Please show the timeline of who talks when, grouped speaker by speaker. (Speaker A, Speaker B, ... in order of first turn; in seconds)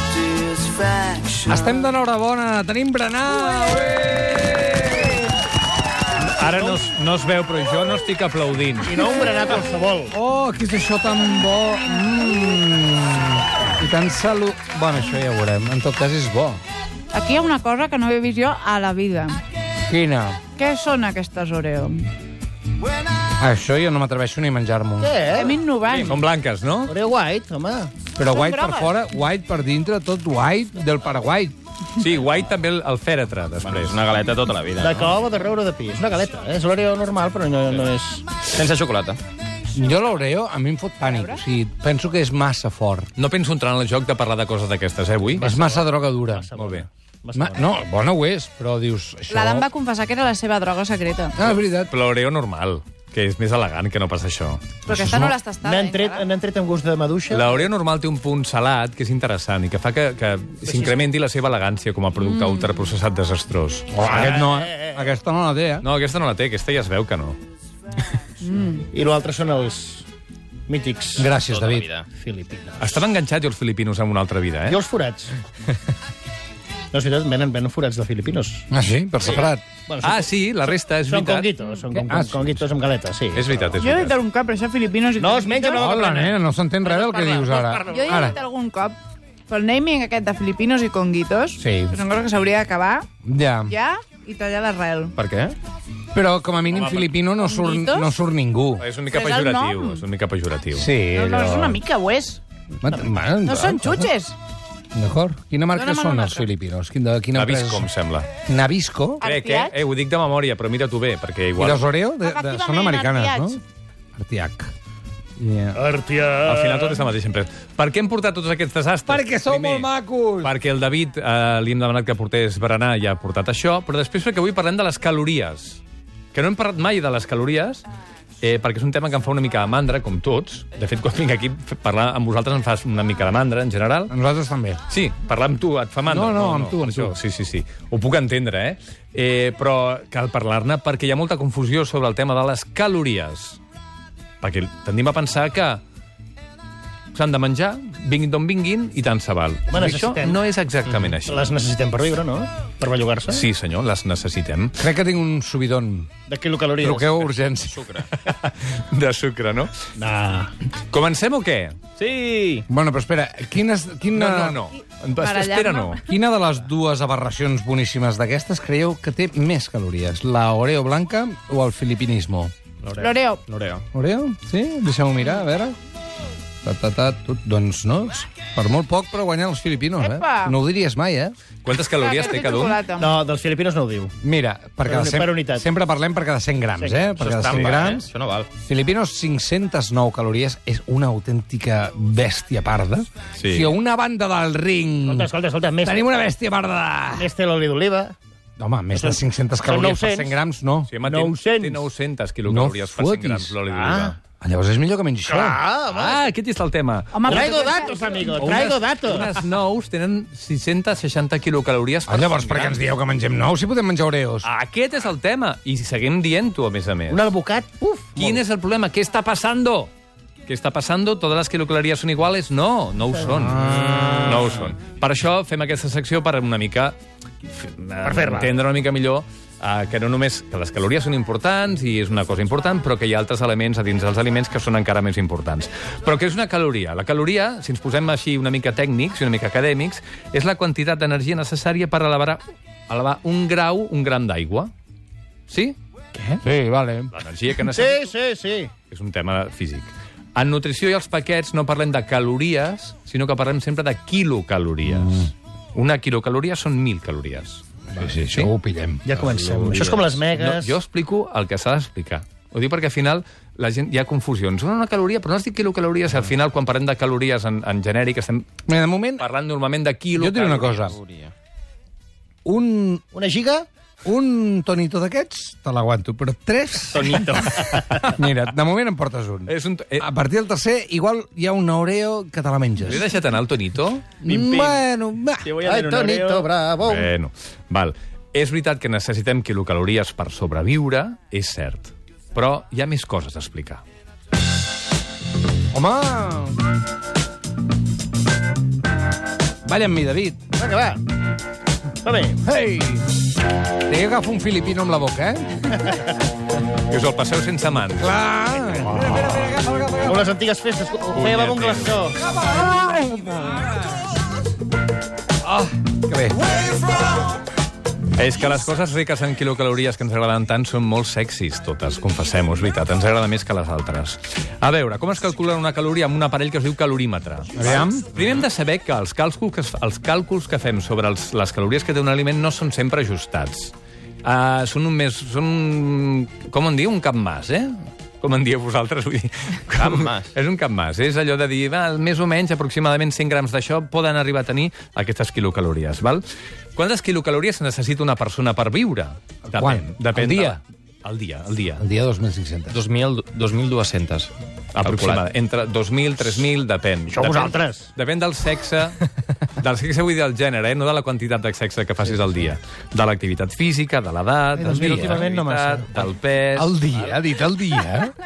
Speaker A: 1.4-5.1, 10.1-16.6, 19.9-20.4, 23.4-25.1, 28.1-31.5, 39.7-43.1, 45.4-46.5, 47.4-49.6, 51.4-51.9, 54.9-55.4, 63.9-65.8, 71.2-71.9, 78.7-79.6, 81.9-82.6, 85.7-88.4, 91.6-92.0, 93.2-93.7, 96.1-98.9, 100.7-101.8, 102.8-104.1, 104.9-107.9, 108.5-109.2, 111.6-113.6, 114.1-114.7, 115.4-115.8, 119.1-120.5, 134.1-134.8, 136.1-137.2, 154.8-156.1, 156.8-157.8, 162.7-164.6, 166.0-172.5, 173.9-175.7, 176.6-181.3, 184.2-188.1, 188.6-197.3, 198.6-200.9, 202.4-203.6, 204.4-205.6, 212.1-214.5, 223.3-224.6, 246.4-247.1, 254.9-255.3, 257.9-259.1, 268.7-269.3, 270.1-271.0, 272.4-273.0, 274.0-277.3, 278.0-283.1, 284.2-285.5, 295.7-296.6, 299.6-300.4, 302.4-303.1, 303.9-305.8, 307.9-310.2, 312.2-313.9, 315.4-316.5, 327.5-328.1, 349.5-350.6, 351.8-352.8, 364.6-365.2, 366.6-368.2
Speaker B: 6.2-9.1, 25.9-26.9, 31.9-34.0, 43.1-45.5, 46.5-46.9, 51.5-54.7, 57.3-64.2, 65.8-67.4, 72.8-74.8, 80.0-81.5, 83.3-84.2, 96.7-97.1, 98.8-100.9, 107.3-108.3, 109.2-111.8, 116.4-119.9, 120.4-125.8, 126.3-127.8, 128.4-134.1, 134.9-143.6, 144.4-145.8, 147.1-151.5, 153.3-154.8, 158.1-159.7, 160.9-161.8, 164.1-166.0, 181.6-182.8, 193.3-193.7, 200.9-204.2, 205.9-207.6, 208.3-212.8, 214.4-217.2, 218.2-219.9, 220.4-226.9, 227.5-244.7, 245.5-245.8, 247.1-248.1, 248.9-258.5, 259.1-268.5, 269.2-270.9, 279.4-280.1, 282.8-284.1, 286.8-293.8, 306.9-308.2, 311.1-312.1, 318.1-346.2, 346.7-351.8, 354.7-359.0, 359.5-367.1
Speaker C: 6.5-6.9, 8.8-10.1, 25.0-25.6, 26.9-27.9, 34.8-38.2, 45.4-47.7, 55.6-57.7, 60.6-61.1, 64.0-65.1, 68.9-70.0, 70.7-71.3, 72.2-73.1, 74.7-75.3, 76.9-78.7, 79.2-80.3, 81.1-83.8, 85.2-88.4, 115.7-117.0, 149.7-150.4, 151.2-153.4, 156.3-157.2, 160.0-160.5, 183.0-184.1, 184.8-185.7, 186.8-187.1, 195.0-196.2, 197.1-198.1, 198.9-200.4, 201.0-201.8, 203.7-204.1, 205.3-206.3, 207.2-209.4, 217.1-218.4, 223.2-224.0, 228.0-228.5, 246.1-246.4, 247.7-248.7, 259.0-260.8, 273.1-273.7, 277.1-278.0, 285.6-287.1, 300.6-301.0, 302.0-302.4, 308.6-309.4, 310.0-312.2, 357.1-357.9, 364.6-366.1
Speaker D: 17.1-19.4, 20.6-22.1, 25.3-26.2, 28.3-28.9, 41.0-41.4, 49.3-51.4, 54.9-56.3, 68.4-68.8, 83.8-85.8, 87.9-89.0, 89.5-93.0, 93.7-95.1, 97.4-98.1, 99.1-100.0, 101.1-102.4, 103.4-104.3, 105.7-106.4, 109.2-109.7, 112.2-113.6, 165.2-166.0, 173.0-173.4, 180.0-180.5, 182.0-183.1, 207.1-208.4
Speaker E: 33.6-35.1, 38.4-39.2, 71.4-72.1, 95.2-95.5, 157.7-158.1, 162.0-162.7, 172.8-173.8, 187.2-188.5, 270.8-271.3, 276.9-277.6, 284.2-284.8, 285.4-286.5, 339.7-340.3, 352.7-355.2